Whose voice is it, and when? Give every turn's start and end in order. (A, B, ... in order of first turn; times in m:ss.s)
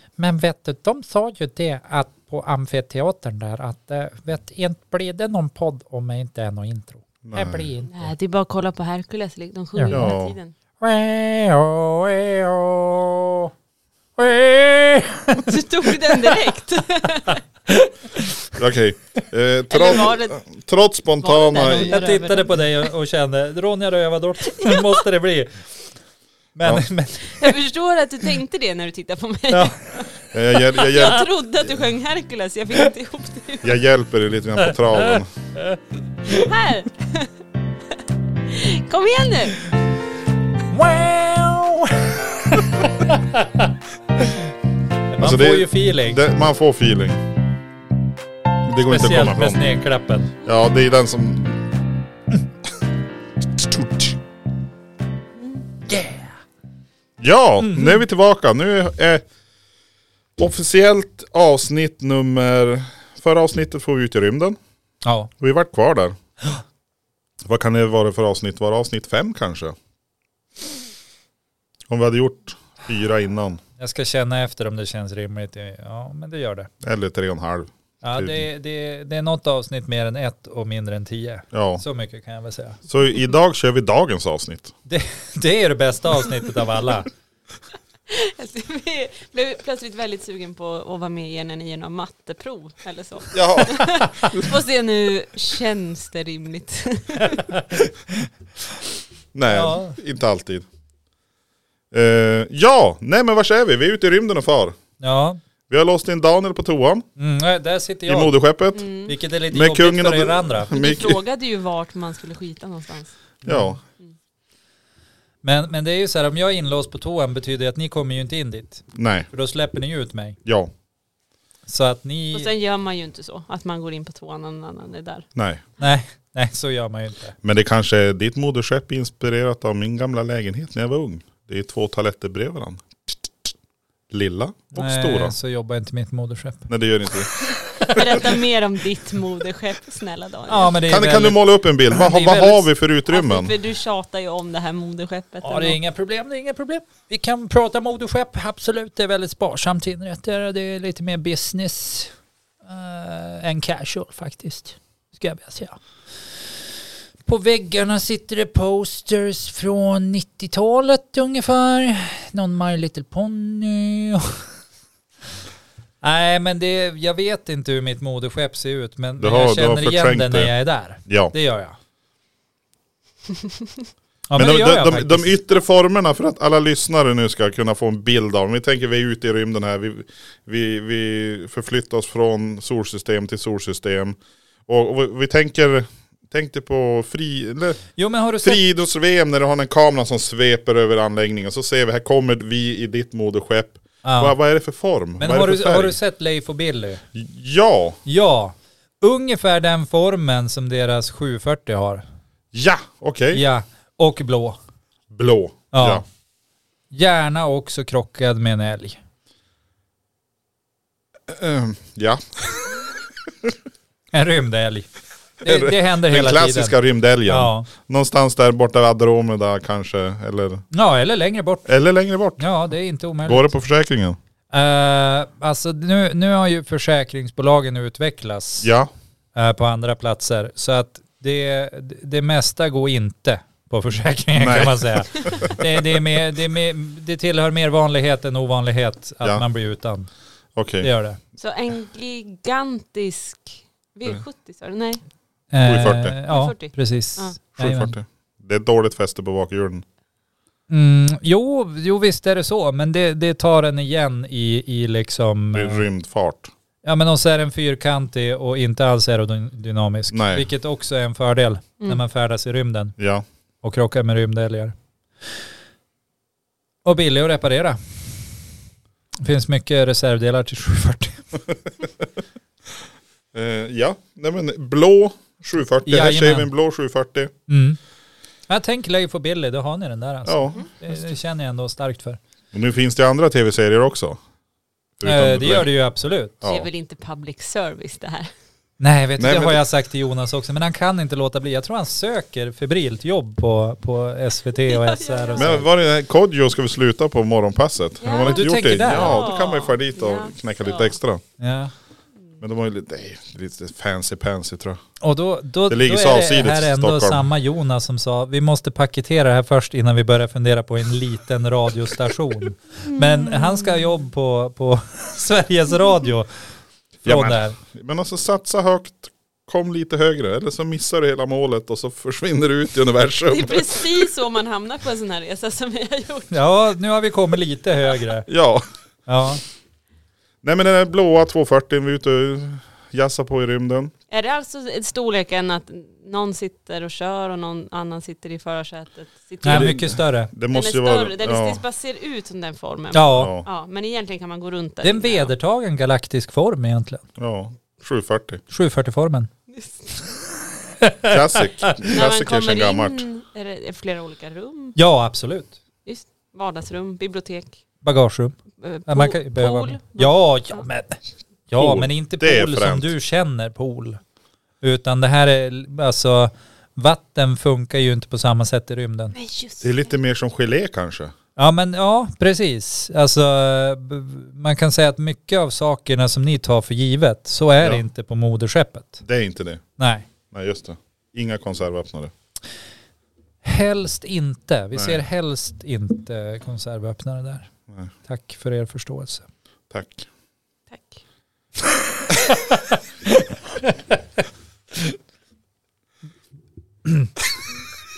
0:00.2-0:08.1 A
0:07.2-0:07.7 B
0:07.9-0:10.5 C
0:09.8-0:10.0 A
0:09.9-0:10.4 B
0:10.8-0:13.5 A
0:14.2-0:15.5 A
0:15.4-0:17.4 C
0:17.3-0:18.5 A
0:18.6-0:22.0 B
0:19.7-0:20.4 C
0:21.2-0:22.7 C
0:21.6-0:25.7 A
0:24.5-0:25.0 C
0:26.6-0:27.5 A
0:27.3-0:30.1 C
0:29.5-0:30.3 A
0:30.3-0:31.3 B
0:30.7-0:33.8 C
0:33.6-0:35.3 B
0:34.6-0:36.5 A
0:36.3-0:37.3 C
0:38.5-0:39.7 C
0:40.7-0:44.4 A
0:45.1-0:46.2 A
0:45.2-0:47.2 B
0:48.6-0:49.7 B
0:48.9-0:50.3 A
0:50.4-0:51.9 B
0:53.6-0:54.1 B
0:55.9-0:56.3 A
0:57.2-0:59.2 B
0:57.6-0:58.0 A
1:00.4-1:04.6 B
1:05.0-1:05.3 A
1:05.4-1:06.2 B
1:07.4-1:09.8 B
1:11.9-1:13.6 B
1:13.8-1:16.7 A
1:16.8-1:18.5 B
1:18.0-1:22.8 A
1:21.5-1:21.8 B
1:22.9-1:24.7 B
1:24.9-1:27.1 A
1:28.1-1:37.6 C
1:33.3-1:34.5 B
1:34.0-1:34.3 A
1:37.2-1:38.3 A
1:39.3-1:40.7 B
1:39.5-1:40.0 A
1:41.9-1:44.8 B
1:45.0-1:45.4 A
1:45.7-1:47.1 B
1:47.2-1:48.4 A
1:48.1-1:48.8 B
1:48.7-1:49.2 C
1:49.1-1:50.7 A
1:49.5-1:51.2 B
1:50.7-1:53.2 C
1:53.4-1:53.8 A
1:53.4-1:53.8 B
1:55.4-2:00.4 A
1:59.0-1:59.3 B
2:00.4-2:00.7 B
2:01.7-2:02.5 A
2:02.3-2:05.3 C
2:05.4-2:05.6 B
2:05.8-2:07.4 A
2:07.4-2:13.2 B
2:14.1-2:15.4 B
2:14.8-2:16.7 A
2:16.7-2:18.2 B
2:17.7-2:18.3 A
2:17.9-2:20.8 C
2:20.5-2:22.7 A
2:20.8-2:23.5 B
2:23.1-2:25.8 C
2:25.4-2:32.1 A
2:32.6-2:35.8 A
2:37.2-2:44.4 A
2:46.0-2:51.8 A
2:49.2-2:50.5 B
2:51.1-2:51.3 B
2:54.3-2:55.3 A
2:54.4-3:07.8 B
3:08.0-3:08.6 A
3:08.4-3:16.0 B
3:14.0-3:14.4 A
3:15.2-3:17.0 A
3:17.1-3:18.0 B
3:18.1-3:22.0 A
3:22.5-3:23.4 B
3:23.3-3:24.6 A
3:25.1-3:26.0 B
3:25.7-3:26.0 A
3:26.9-3:29.0 A
3:31.3-3:33.6 B
3:34.1-3:34.9 A
3:35.4-3:36.8 A
3:35.4-3:40.6 B
3:37.3-3:37.7 A
3:40.7-3:41.7 A
3:41.7-3:42.5 B
3:42.4-3:43.6 A
3:43.2-3:44.2 B
3:44.5-3:48.7 A
3:48.6-3:48.9 B
3:49.4-4:00.1 A
3:54.4-3:55.6 B
4:00.6-4:00.9 B
4:00.8-4:01.2 A
4:01.4-4:05.0 C
4:05.5-4:08.0 A
4:05.6-4:06.2 B
4:06.3-4:07.4 C
4:07.6-4:09.8 B
4:10.7-4:15.8 A
4:15.5-4:16.5 B
4:16.8-4:23.0 A
4:20.1-4:20.5 B
4:23.0-4:23.2 B
4:23.6-4:24.8 A
4:26.8-4:28.1 A
4:29.2-4:31.3 A
4:33.3-4:37.3 B
4:35.8-4:36.5 A
4:37.5-4:37.8 A
4:38.5-4:42.2 A
4:40.3-4:40.7 B
4:42.5-4:44.2 B
4:45.0-4:45.7 B
4:45.0-4:46.5 A
4:46.4-4:46.7 B
4:46.4-4:48.3 C
4:48.8-4:55.7 A
4:49.2-4:49.6 B
4:54.6-4:55.6 C
4:55.4-5:01.2 B
4:58.0-5:01.0 C
4:58.2-4:59.2 A
5:01.4-5:01.7 A
5:02.4-5:04.8 B
5:05.0-5:16.3 A
5:05.7-5:07.3 B
5:12.9-5:13.8 C
5:17.0-5:24.0 B
5:17.0-5:17.6 A
5:23.3-5:26.4 C
5:26.3-5:28.3 A
5:28.3-5:28.6 B
5:29.1-5:29.4 A
5:30.4-5:33.9 B
5:34.1-5:39.8 C
5:39.4-5:40.3 A
5:39.5-5:41.6 B
5:40.5-5:45.3 C
5:42.9-5:43.3 A
5:43.2-5:43.5 B
5:44.8-5:47.0 A
5:47.2-5:48.4 B
5:48.5-5:49.3 A
5:49.5-5:50.0 C
5:50.6-5:51.8 A
5:51.1-5:53.1 B
5:51.8-5:54.8 C
5:54.8-5:55.6 A
5:55.8-5:57.6 C
5:57.8-5:58.4 A
5:58.6-6:00.6 C
5:58.9-6:04.0 A
6:01.6-6:03.0 B
6:04.6-6:09.2 A
6:09.1-6:09.9 C
6:09.6-6:11.1 B
6:11.4-6:19.0 A
6:19.0-6:19.6 B
6:19.8-6:20.1 A
6:20.3-6:22.1 B
6:23.4-6:27.5 A
6:24.7-6:25.0 B
6:28.1-6:29.3 A
6:29.7-6:30.1 B
6:30.7-6:31.0 C
6:32.0-6:34.0 A
6:36.8-6:37.1 A